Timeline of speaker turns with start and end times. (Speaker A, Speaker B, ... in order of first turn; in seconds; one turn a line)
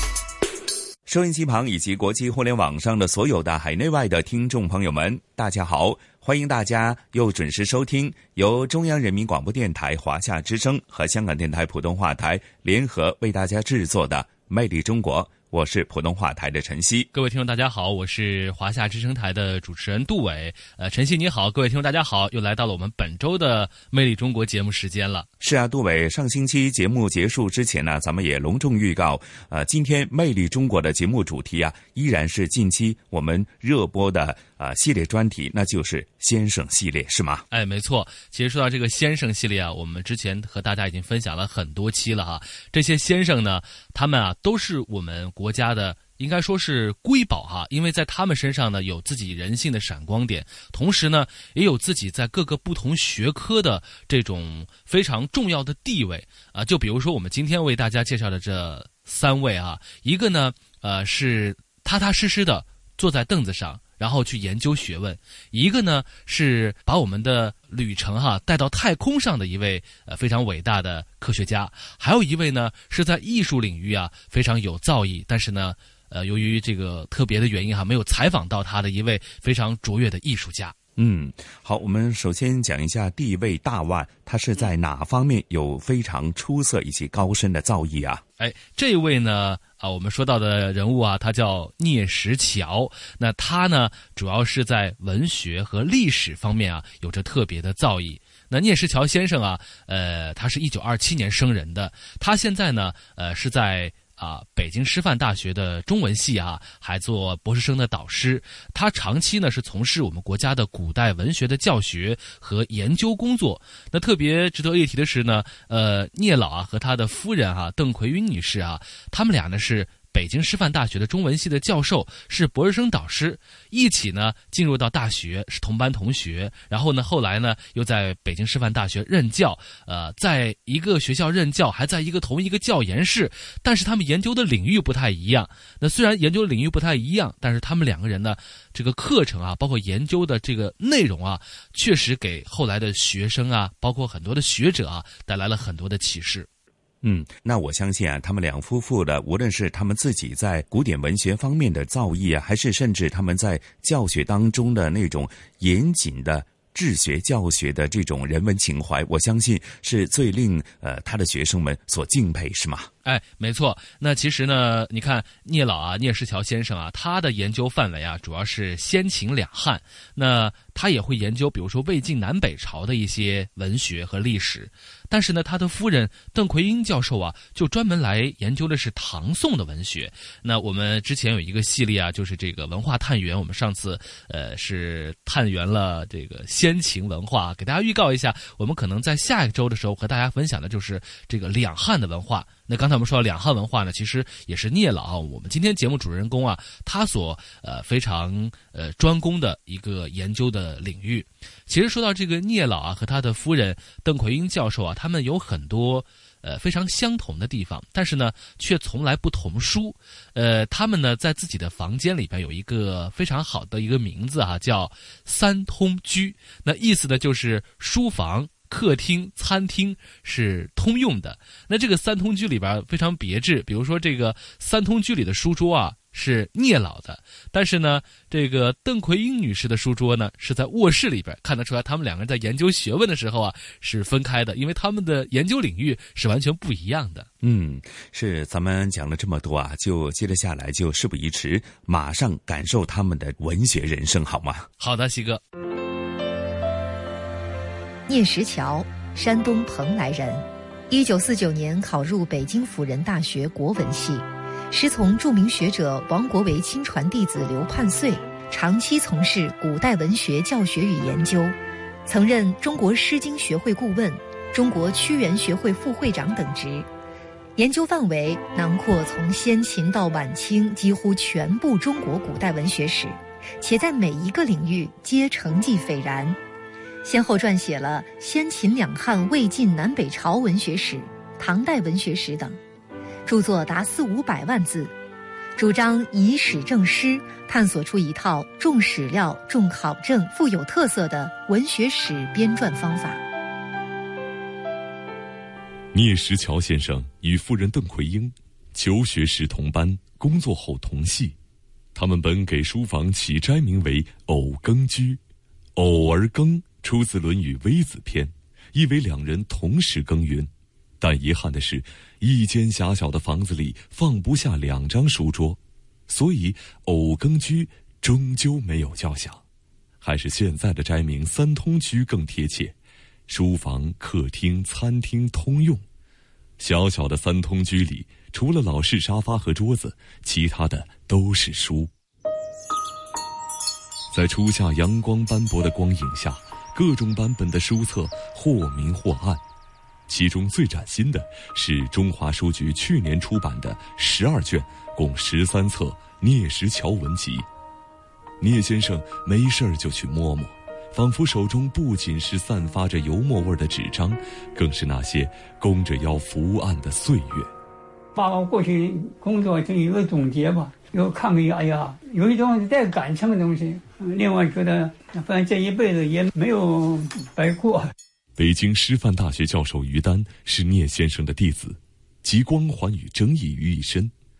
Speaker A: 1.1-17.1
Speaker B: 17.1-25.3
Speaker A: 25.4-37.4
Speaker B: 37.5-80.7
Speaker A: 81.0-88.2
Speaker B: 88.4-146.5
Speaker A: 147.0-162.9
Speaker B: 163.0-237.3
Speaker A: 237.4-244.7
Speaker B: 244.8-245.4
Speaker C: 248.1-266.9
Speaker C: 267.6-276.4
Speaker C: 277.0-282.6
Speaker C: 283.2-284.9
Speaker C: 285.6-293.2
Speaker D: 295.9-301.4
Speaker D: 301.9-305.2
Speaker D: 305.8-310.5
Speaker D: 311.0-319.4
Speaker D: 320.0-322.7
Speaker D: 323.3-325.8
Speaker D: 326.6-331.9
Speaker D: 334.1-339.4
Speaker D: 340.1-347.4
Speaker D: 348.4-357.5
Speaker E: 358.1-367.9
Speaker D: 368.4-374.1